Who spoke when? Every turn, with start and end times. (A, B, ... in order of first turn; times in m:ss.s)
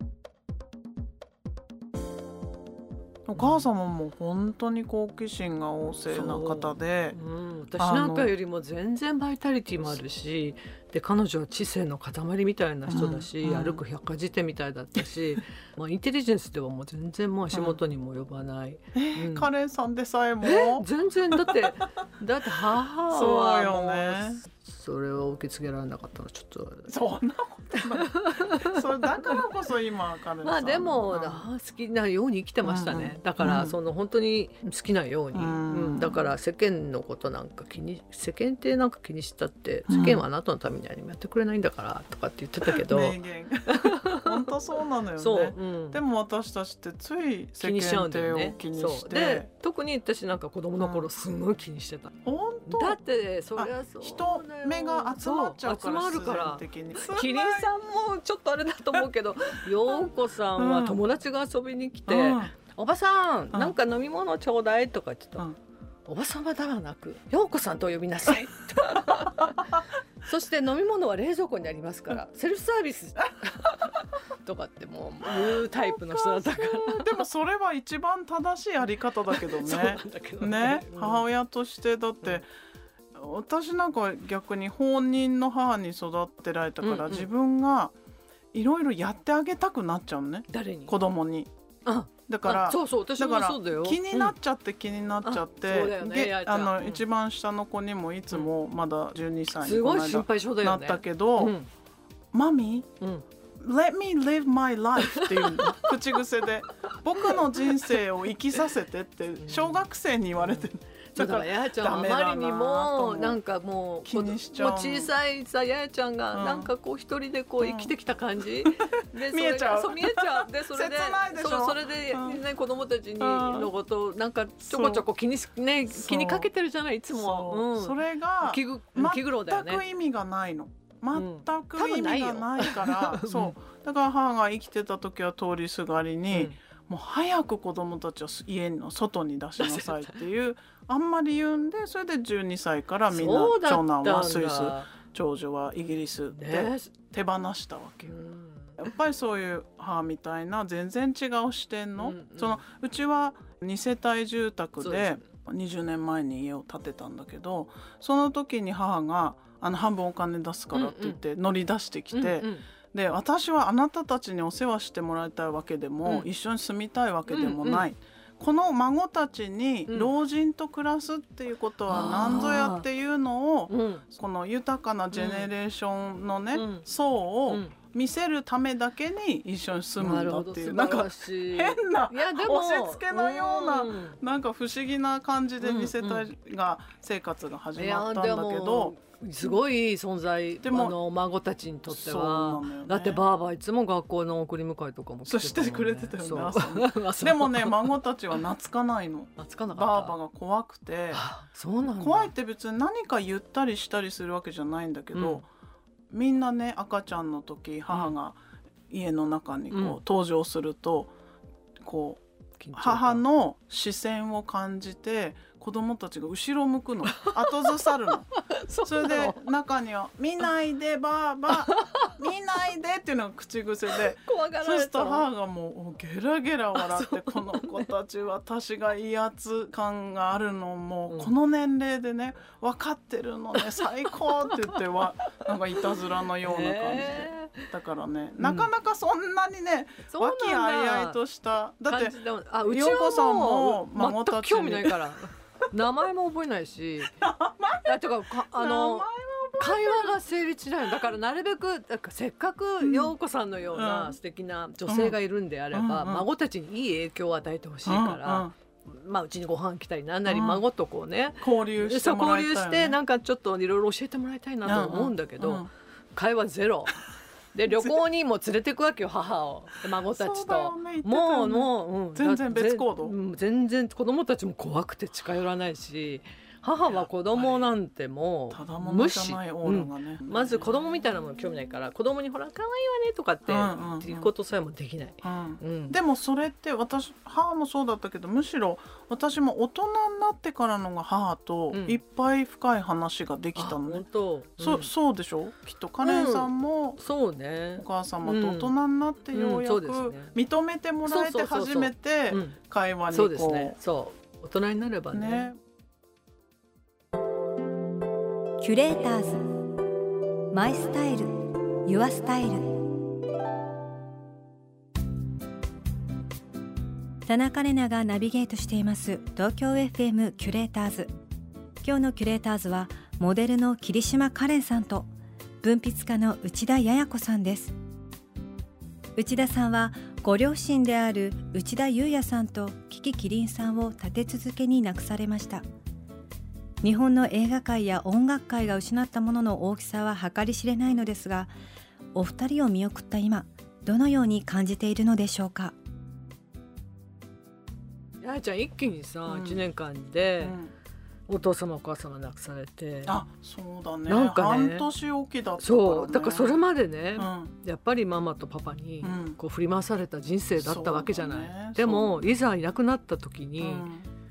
0:03.3-0:07.2 A
0:03.4-0:03.6 B
0:06.1-0:19.5 B
0:07.8-0:08.3 A
0:12.9-0:13.8 A
0:17.5-0:17.8 A
0:18.9-0:21.7 A
0:20.4-0:26.9 B
0:23.1-0:24.4 A
0:26.9-0:31.5 A
0:27.9-0:29.4 B
0:30.4-0:43.2 B
0:32.6-0:33.8 A
0:35.3-0:36.2 A
0:39.9-0:40.2 A
0:42.7-0:49.5 A
0:43.7-0:44.5 B
0:45.2-0:46.0 B
0:47.6-0:52.1 B
0:50.8-0:51.1 A
0:52.2-0:53.0 A
0:52.7-1:05.5 B
0:53.6-0:57.7 A
0:59.9-1:01.0 A
1:02.1-1:02.5 A
1:06.1-1:17.2 B
1:15.3-1:22.5 A
1:19.3-1:21.2 B
1:23.2-1:27.9 A
1:26.8-1:27.3 B
1:28.5-1:31.5 A
1:30.5-1:31.0 B
1:31.9-1:34.4 B
1:32.3-1:41.6 A
1:35.2-1:37.0 B
1:39.6-1:41.7 B
1:42.3-1:42.9 A
1:43.6-1:53.4 A
1:45.1-1:45.9 B
1:47.4-1:47.9 B
1:49.4-1:49.8 B
1:50.4-2:09.8 B
1:54.0-1:55.1 A
1:56.3-1:56.7 A
1:57.6-1:57.9 A
1:58.6-2:02.4 A
2:03.2-2:03.7 A
2:04.7-2:05.0 A
2:05.9-2:06.5 A
2:07.1-2:28.1 A
2:11.1-2:13.6 B
2:19.6-2:20.2 B
2:23.1-2:24.9 B
2:26.3-2:26.9 B
2:28.0-2:28.9 B
2:28.8-3:08.9 A
2:32.0-2:32.6 B
2:34.8-2:35.2 B
2:40.7-2:41.2 B
2:42.1-2:42.6 B
2:47.3-2:47.9 B
2:49.9-2:50.1 B
2:51.9-2:52.9 B
2:53.7-2:54.0 B
2:55.1-2:55.5 B
2:56.5-2:56.9 B
3:00.0-3:04.2 B
3:05.6-3:06.3 B
3:07.8-3:18.0 B
3:10.6-3:11.0 A
3:11.9-3:13.2 A
3:15.3-3:21.2 A
3:19.4-3:20.2 B
3:21.1-3:22.3 B
3:21.9-3:25.5 A
3:25.2-3:25.4 B
3:26.1-3:31.1 A
3:27.9-3:28.2 B
3:29.7-3:30.0 B
3:31.8-3:32.2 A
3:32.6-3:33.2 B
3:32.7-3:38.3 A
3:37.1-3:37.8 B
3:38.5-3:39.4 B
3:38.8-4:05.0 A
3:41.7-3:42.1 B
3:43.9-3:45.3 B
3:46.8-3:47.9 B
3:51.1-3:51.3 B
3:53.6-3:54.8 B
3:55.8-3:57.7 B
3:58.4-3:58.7 B
4:00.1-4:01.2 B
4:01.9-4:07.2 B
4:07.2-4:10.2 A
4:07.8-4:09.1 B
4:09.6-4:27.0 B
4:10.8-4:11.1 A
4:12.8-4:13.1 A
4:13.7-4:14.2 A
4:14.9-4:15.2 A
4:15.7-4:16.3 A
4:17.8-4:18.5 A
4:20.3-4:20.6 A
4:21.4-4:23.0 A
4:24.6-4:25.7 A
4:27.5-4:46.0 B
4:27.7-4:28.0 A
4:30.1-4:33.1 A
4:36.9-4:37.7 A
4:38.5-4:40.7 A
4:43.5-4:44.3 A
4:45.2-4:54.0 A
4:51.7-4:52.0 B
4:53.6-4:54.9 B
4:54.6-4:57.0 A
4:56.0-4:58.7 B
4:57.8-5:03.8 A
4:59.3-5:00.3 B
5:01.0-5:02.6 B
5:03.1-5:05.5 B
5:05.1-5:05.6 A
5:08.6-5:09.5 C
5:10.5-5:11.3 C
5:11.8-5:12.7 C
5:17.3-5:21.1 C
5:21.8-5:25.1 C
5:25.6-5:27.8 C
5:29.2-5:35.6 C
5:36.8-5:41.5 C
5:42.2-5:45.8 C
5:48.2-5:50.6 B
5:49.3-5:49.6 A
5:50.4-5:50.7 A
5:51.3-5:53.2 B
5:53.1-5:56.6 A
5:54.1-5:54.9 B
5:55.6-6:03.9 B
5:57.2-5:57.6 A
5:59.0-5:59.4 A
6:00.6-6:02.2 A
6:03.6-6:04.1 A